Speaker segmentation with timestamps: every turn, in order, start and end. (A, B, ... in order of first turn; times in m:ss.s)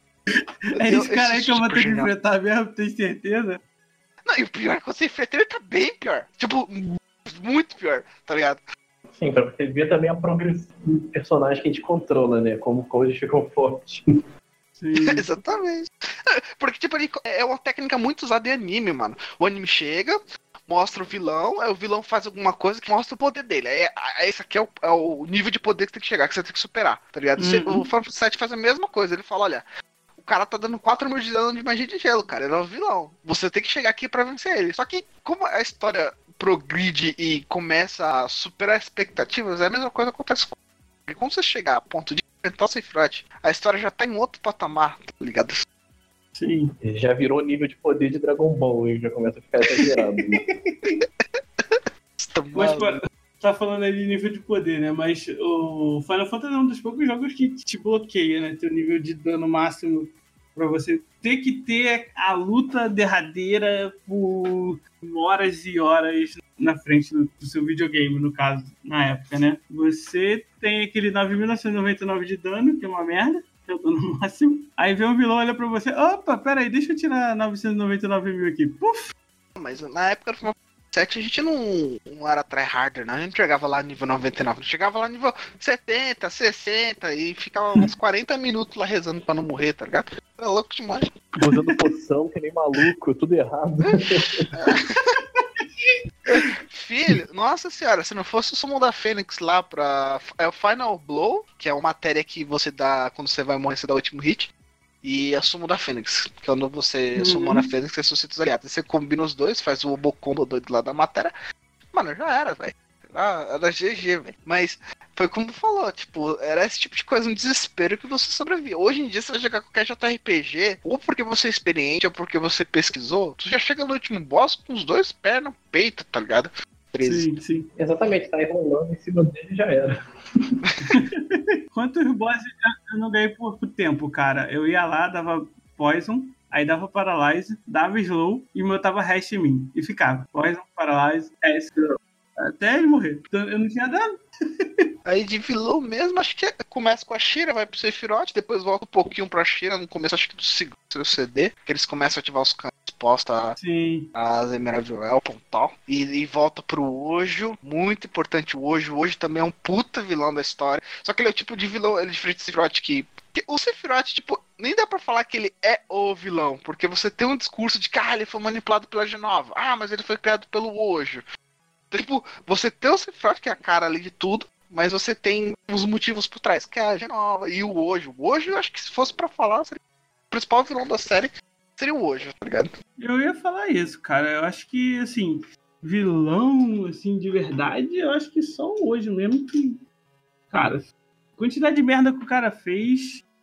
0:00.7-0:03.6 A
0:00.8-0:02.1 B
0:04.2-0:08.6 B
0:09.1-0:14.0 C
0:14.8-0:15.2 A
0:14.9-0:29.6 B
0:27.4-0:27.9 A
0:30.2-0:40.5 B
0:41.1-0:45.6 B
0:46.4-0:46.7 A
0:46.8-0:50.4 C
0:50.6-0:51.0 A
0:51.0-0:53.0 B
0:52.5-1:19.1 A
1:19.6-1:31.1 B
1:31.4-1:34.5 C
1:31.4-1:31.8 A
1:34.5-1:35.0 B
1:35.3-1:36.5 A
1:36.6-1:44.5 B
1:45.0-1:51.3 B
1:47.2-1:47.7 A
1:51.9-2:07.3 B
2:07.0-2:07.7 A
2:07.8-2:10.6 C
2:10.6-2:10.9 B
2:10.9-2:24.8 A
2:25.0-2:33.6 B
2:33.6-2:34.1 A
2:34.1-2:51.2 B
2:51.9-2:59.8 B
3:00.3-3:02.7 B
3:03.0-3:09.8 A
3:10.5-3:13.2 A